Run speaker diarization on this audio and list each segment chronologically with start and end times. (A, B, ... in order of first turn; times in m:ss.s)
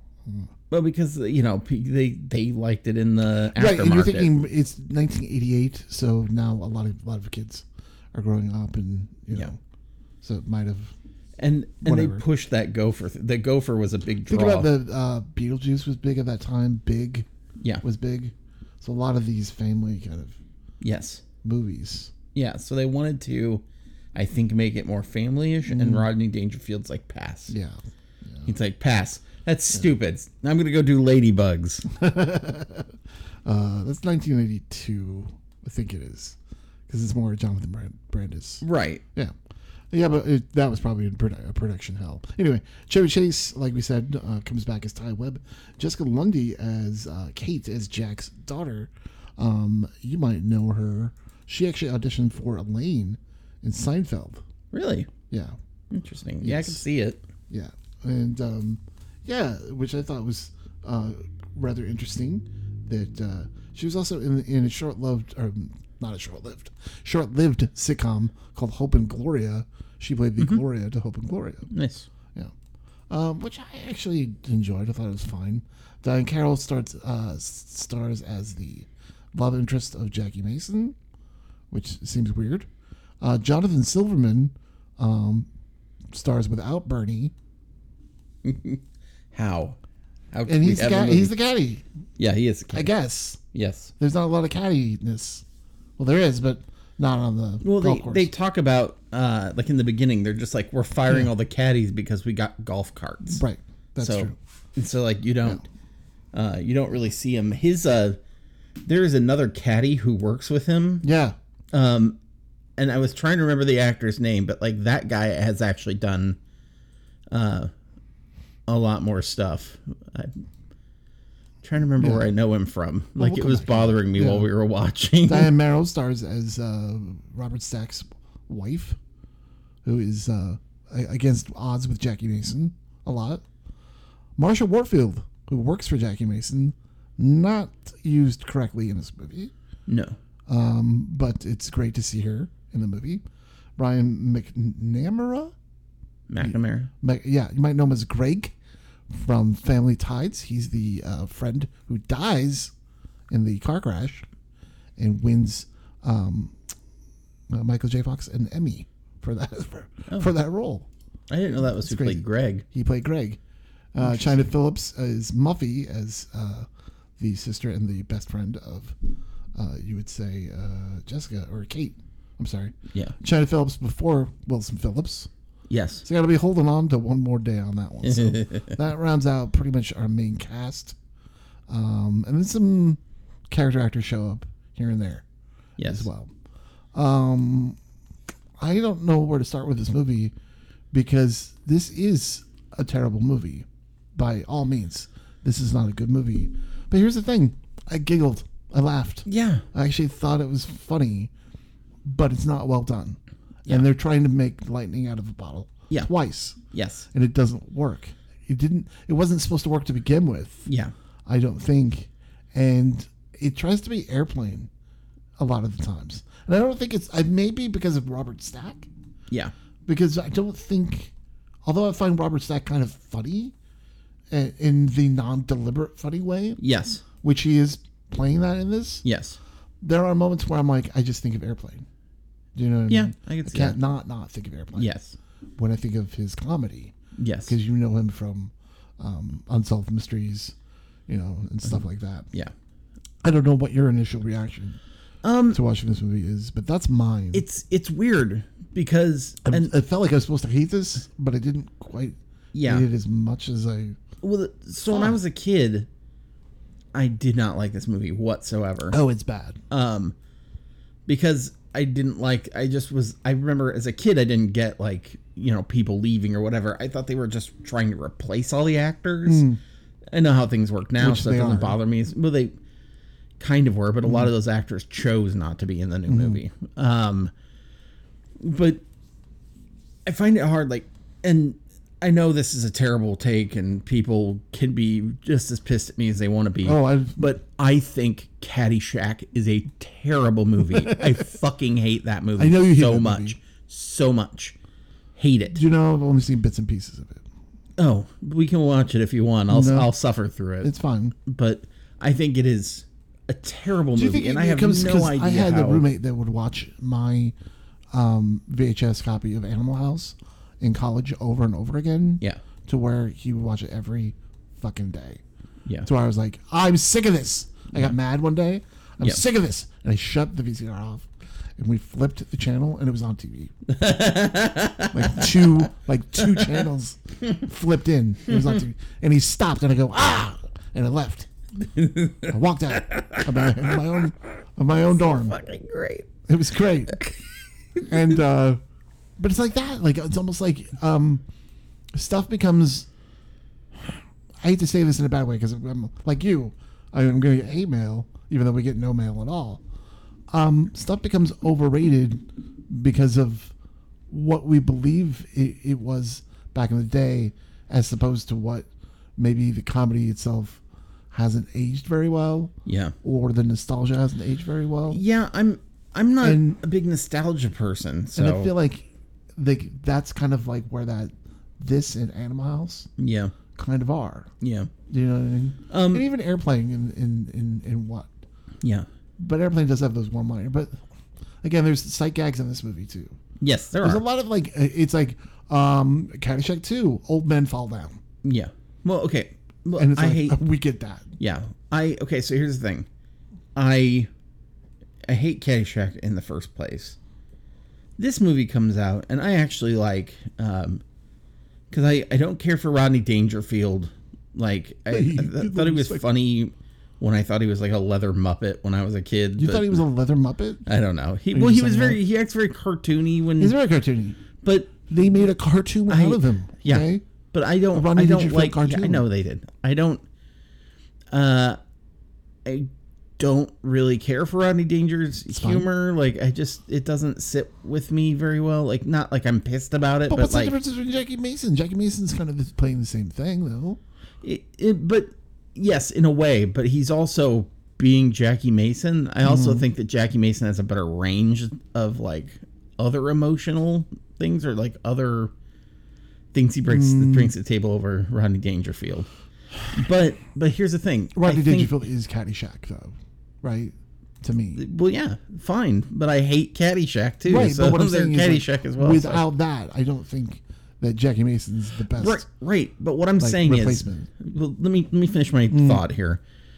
0:00.7-0:04.4 A
0:03.5-0:09.6 B
0:10.2-0:10.9 B
0:11.4-0:14.7 A
0:11.8-0:12.2 B
0:14.2-0:17.2 B
0:17.8-0:20.4 B
0:20.8-0:21.2 A
0:21.4-0:22.1 B
0:22.3-0:23.6 A
0:24.1-0:27.5 A
0:25.7-0:26.1 B
0:27.5-0:28.5 B
0:28.4-0:31.8 A
0:31.9-0:32.9 B
0:33.4-0:36.4 B
0:36.9-0:38.6 B
0:38.6-0:39.0 A
0:39.9-0:54.4 B
0:54.7-0:55.1 A
0:55.3-0:55.6 B
0:55.9-0:57.2 A
0:56.4-0:56.8 B
0:57.5-1:11.7 B
1:11.7-1:12.1 A
1:13.1-1:21.0 B
1:21.7-1:22.7 B
1:23.2-1:25.5 B
1:26.1-1:27.3 B
1:28.4-1:29.8 A
1:30.3-1:31.3 A
1:30.5-1:31.8 B
1:32.2-1:32.9 A
1:32.7-1:33.4 B
1:33.5-1:33.9 A
1:34.0-1:35.4 B
1:36.0-1:38.3 B
1:37.6-1:43.4 A
1:43.3-1:44.4 B
1:44.0-1:45.6 A
1:46.3-1:48.2 A
1:48.8-1:51.0 A
1:51.0-1:51.4 B
1:51.7-1:52.2 A
1:52.8-1:56.4 A
1:57.3-1:57.7 A
1:58.7-2:00.3 A
2:01.6-2:05.5 A
2:02.0-2:02.3 B
2:03.2-2:04.5 B
2:05.3-2:09.0 B
2:09.8-2:13.4 B
2:14.4-2:19.5 B
2:19.9-2:20.2 A
2:20.5-2:23.2 B
2:23.8-2:25.5 B
2:26.3-2:26.9 A
2:26.4-2:28.5 B
2:29.1-2:32.7 B
2:33.3-2:34.2 B
2:35.0-2:36.6 B
2:37.5-2:40.9 B
2:41.3-2:42.6 A
2:41.8-2:43.4 B
2:43.9-2:49.0 B
2:49.6-2:55.3 B
2:55.7-2:56.0 A
2:56.0-3:01.0 B
2:58.0-2:58.7 A
3:01.7-3:05.2 B
3:05.8-3:06.1 A
3:05.8-3:06.3 B
3:06.9-3:07.8 B
3:08.6-3:10.3 B
3:10.9-3:21.3 B
3:19.2-3:19.6 A
3:22.0-3:26.6 B
3:26.7-3:27.1 A
3:27.1-3:30.7 B
3:30.7-3:30.9 A
3:31.2-3:34.7 B
3:35.4-3:38.9 B
3:39.8-3:41.1 B
3:41.6-3:43.5 B
3:44.3-3:46.6 B
3:46.6-3:47.0 A
3:47.2-3:49.0 B
3:49.0-3:49.4 A
3:49.8-3:51.8 B
3:52.5-3:54.9 B
3:52.9-3:53.8 A
3:54.7-3:55.2 A
3:55.6-3:56.9 B
3:57.2-3:57.6 A
3:57.5-4:00.5 B
4:01.1-4:02.3 B
4:03.2-4:04.8 B
4:05.2-4:05.6 A
4:05.5-4:07.4 B
4:07.3-4:09.7 A
4:09.4-4:14.0 B
4:12.5-4:12.8 A
4:14.2-4:15.9 A
4:14.9-4:15.2 B
4:16.9-4:19.0 A
4:18.9-4:19.6 B
4:19.7-4:20.1 A
4:21.1-4:29.5 A
4:29.2-4:29.6 B
4:30.1-4:32.6 A
4:31.0-4:31.8 B
4:33.4-4:37.3 A
4:36.1-4:36.4 B
4:38.4-4:38.8 A
4:40.0-4:54.6 A
4:46.6-4:47.2 B
4:50.7-4:51.2 B
4:52.4-4:53.4 B
4:55.2-4:55.6 A
4:55.5-4:57.2 B
4:57.8-5:00.7 A
4:59.5-4:59.9 B
5:00.6-5:01.1 B
5:01.2-5:05.8 A
5:03.9-5:07.3 B
5:07.9-5:15.2 B
5:15.8-5:23.5 B
5:23.7-5:25.4 A
5:24.9-5:31.3 B
5:26.3-5:26.6 A
5:31.6-5:33.7 A
5:32.3-5:35.4 B
5:35.1-5:36.1 A
5:36.3-5:37.0 B
5:37.8-5:38.6 B
5:39.2-5:41.2 B
5:41.9-5:42.9 B
5:44.4-5:49.6 B
5:50.3-5:53.5 B
5:54.1-6:05.0 B
6:02.6-6:02.9 A
6:04.9-6:08.5 A
6:06.2-6:06.6 B
6:08.2-6:08.8 B
6:09.4-6:12.9 B
6:13.0-6:13.3 A
6:13.6-6:14.3 B
6:14.4-6:14.7 A
6:14.9-6:18.1 B
6:15.7-6:16.0 A
6:19.2-6:20.8 B
6:21.4-6:23.2 B
6:23.4-6:24.0 A
6:23.8-6:28.0 B
6:28.2-6:30.4 A
6:29.8-6:31.1 B
6:31.2-6:32.9 A
6:33.5-6:34.1 A
6:35.0-6:37.0 A
6:38.0-6:40.8 A
6:41.7-6:49.8 A
6:44.9-6:46.0 B
6:49.4-6:50.7 B
6:50.6-6:53.5 A
6:51.3-6:52.0 B
6:53.4-6:54.2 B
6:54.4-6:54.7 A
6:54.9-6:57.0 B
6:55.9-7:00.0 A
6:57.7-6:59.1 B
7:01.1-7:01.6 A
7:02.4-7:10.5 A
7:05.3-7:05.7 B
7:10.1-7:13.8 B
7:14.2-7:25.3 A
7:19.2-7:19.7 B
7:26.3-7:29.1 A
7:26.7-7:27.3 B
7:29.7-7:31.7 A
7:31.1-7:34.6 B
7:34.5-7:39.2 A
7:37.2-7:42.2 B
7:41.9-7:46.2 A
7:43.2-7:44.1 B
7:45.5-7:45.8 B